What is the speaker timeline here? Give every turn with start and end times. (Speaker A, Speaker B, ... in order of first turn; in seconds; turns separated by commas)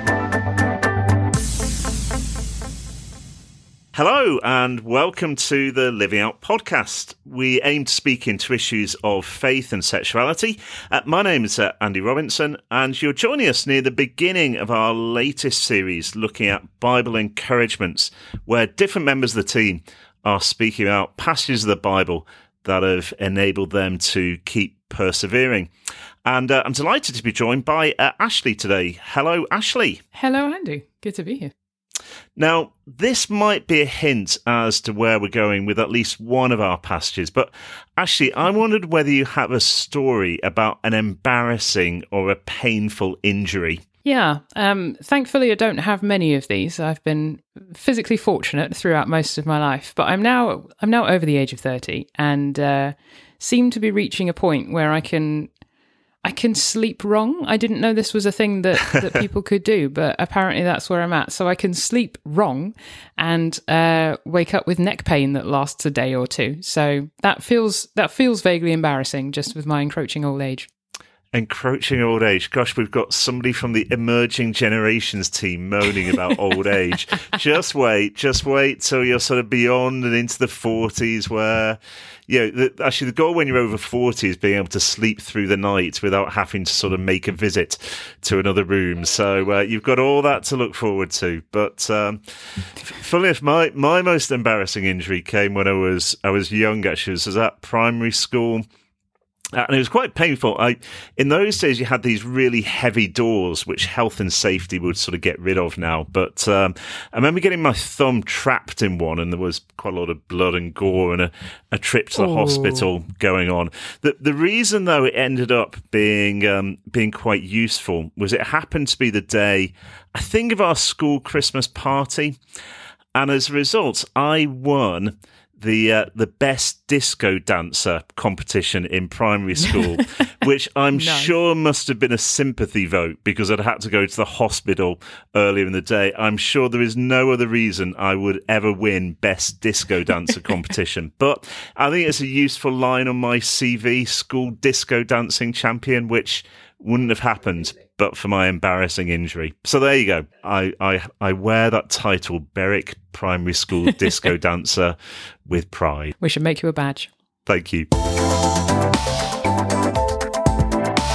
Speaker A: 3.9-25.7, Speaker A: 26.2-30.0, Speaker B: 30.1-31.5, Speaker A: 32.4-43.8, Speaker B: 44.0-55.5, Speaker B: 56.2-70.7, Speaker A: 71.3-98.6, Speaker A: 99.5-122.4, Speaker B: 112.2-112.9, Speaker A: 123.2-156.2, Speaker B: 130.9-131.3, Speaker B: 156.2-157.1, Speaker A: 157.5-157.9